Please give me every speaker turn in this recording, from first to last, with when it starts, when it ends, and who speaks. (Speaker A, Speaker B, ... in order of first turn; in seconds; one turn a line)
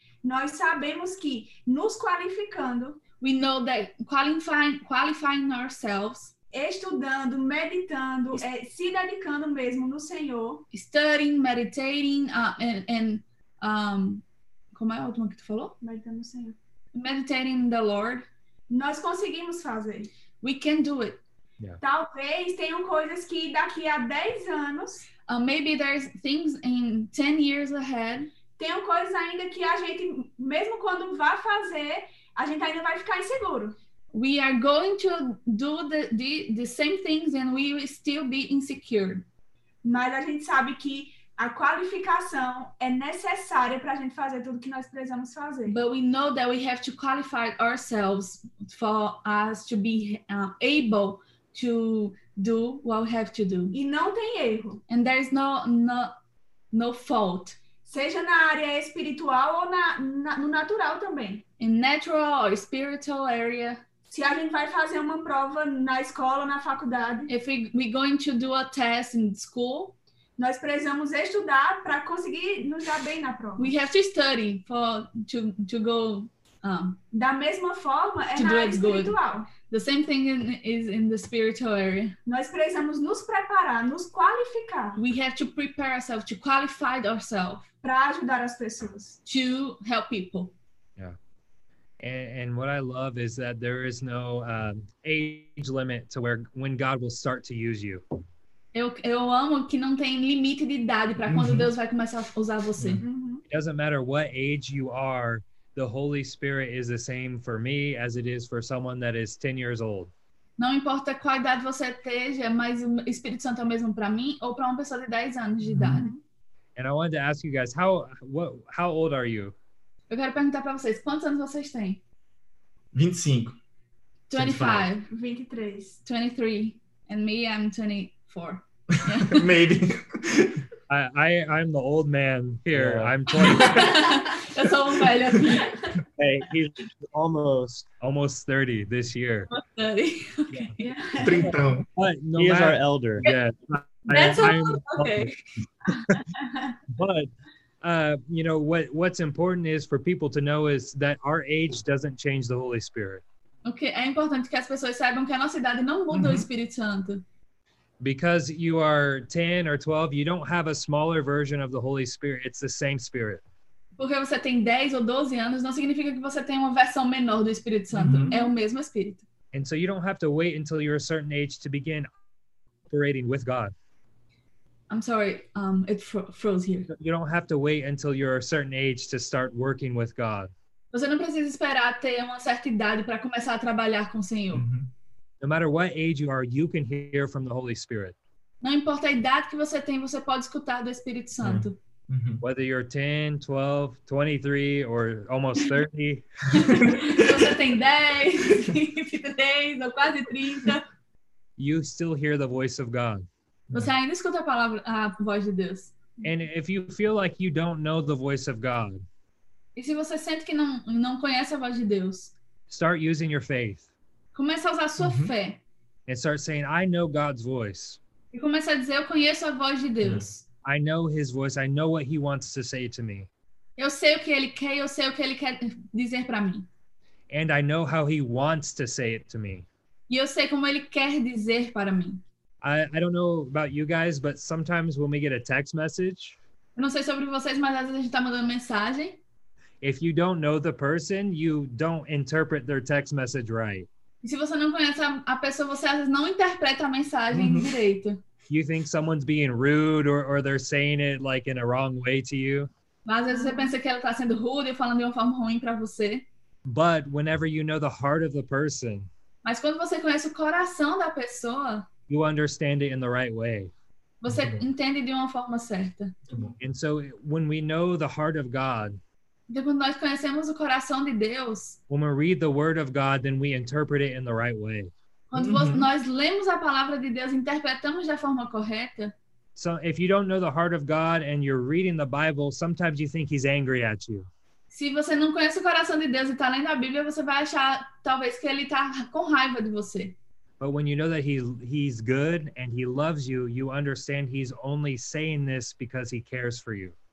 Speaker A: 0.2-3.0
Speaker B: 3.2-6.3
Speaker A: 6.5-10.6
Speaker B: 10.7-15.8
Speaker A: 15.8-16.6
Speaker B: 16.9-18.2
Speaker A: 18.7-20.1
Speaker B: 20.4-21.2
Speaker A: 21.8-25.1
Speaker B: 25.3-28.3
Speaker A: 28.6-33.8
Speaker B: 34.1-39.2
Speaker A: 39.8-45.8
Speaker B: 45.7-53.7
Speaker A: 53.7-54.8
Speaker B: 54.9-56.1
Speaker B: 56.7-57.6
Speaker A: 57.9-61.4
Speaker B: 61.6-63.8
Speaker A: 64.1-67.3
Speaker B: 67.3-69.9
Speaker A: 70.4-73.7
Speaker B: 73.6-77.0
Speaker A: 77.1-79.5
Speaker B: 78.3-82.1
Speaker A: 82.2-85.0
Speaker B: 85.0-87.7
Speaker A: 87.8-89.2
Speaker B: 89.2-90.5
Speaker C: 92.0-98.0
Speaker B: 98.7-103.0
Speaker D: 101.2-101.7
Speaker D: 102.8-103.0
Speaker A: 103.0-103.4
Speaker C: 103.5-110.1
Speaker B: 110.6-116.1
Speaker D: 115.6-116.1
Speaker A: 115.9-116.2
Speaker C: 116.8-119.5
Speaker B: 120.1-122.0
Speaker D: 122.9-123.5
Speaker B: 124.3-125.1
Speaker D: 124.3-124.9
Speaker A: 125.1-126.0
Speaker B: 126.0-129.4
Speaker D: 129.1-130.6
Speaker C: 130.9-134.0
Speaker E: 132.7-133.2
Speaker B: 133.4-136.0
Speaker E: 136.2-137.9
Speaker C: 138.0-139.5
Speaker B: 139.5-140.9
Speaker A: 140.8-141.6
Speaker D: 141.2-141.8
Speaker C: 141.9-145.3
Speaker E: 142.3-143.3
Speaker B: 144.1-145.4
Speaker C: 145.9-146.2
Speaker C: 146.9-147.3
Speaker C: 147.8-153.2
Speaker B: 153.6-157.2
Speaker D: 156.1-156.5
Speaker C: 158.0-163.4
Speaker B: 164.0-169.2
Speaker D: 167.9-168.3
Speaker C: 169.5-172.1
Speaker C: 172.9-173.7
Speaker B: 174.9-176.9
Speaker C: 176.9-180.5
Speaker B: 180.9-184.7
Speaker D: 184.5-184.9
Speaker C: 185.4-188.1
Speaker B: 188.6-191.8
Speaker D: 191.4-192.4
Speaker C: 192.4-196.2
Speaker B: 196.6-200.8
Speaker D: 196.7-197.5
Speaker C: 201.6-203.3
Speaker B: 203.7-205.9
Speaker C: 206.2-209.0
Speaker B: 209.8-212.3
Speaker C: 212.7-213.9
Speaker B: 214.3-215.6
Speaker D: 215.0-215.3
Speaker C: 216.1-218.0
Speaker B: 218.3-220.4
Speaker D: 220.0-220.3
Speaker C: 220.6-223.3
Speaker B: 223.8-226.7
Speaker C: 227.3-229.7
Speaker B: 230.1-232.2
Speaker C: 232.6-236.4
Speaker B: 236.8-239.2
Speaker C: 239.8-243.9
Speaker B: 244.2-248.2
Speaker D: 247.3-247.7
Speaker C: 248.5-252.7
Speaker B: 253.0-256.2
Speaker A: 253.3-253.7
Speaker C: 256.6-259.1
Speaker B: 259.4-261.9
Speaker C: 262.1-263.7
Speaker B: 264.2-266.2
Speaker D: 264.3-264.6
Speaker D: 266.3-266.6
Speaker C: 266.6-269.0
Speaker B: 269.5-271.8
Speaker C: 271.9-274.9
Speaker B: 275.3-279.1
Speaker D: 275.3-275.9
Speaker C: 279.6-284.3
Speaker B: 284.7-290.1
Speaker C: 290.6-296.9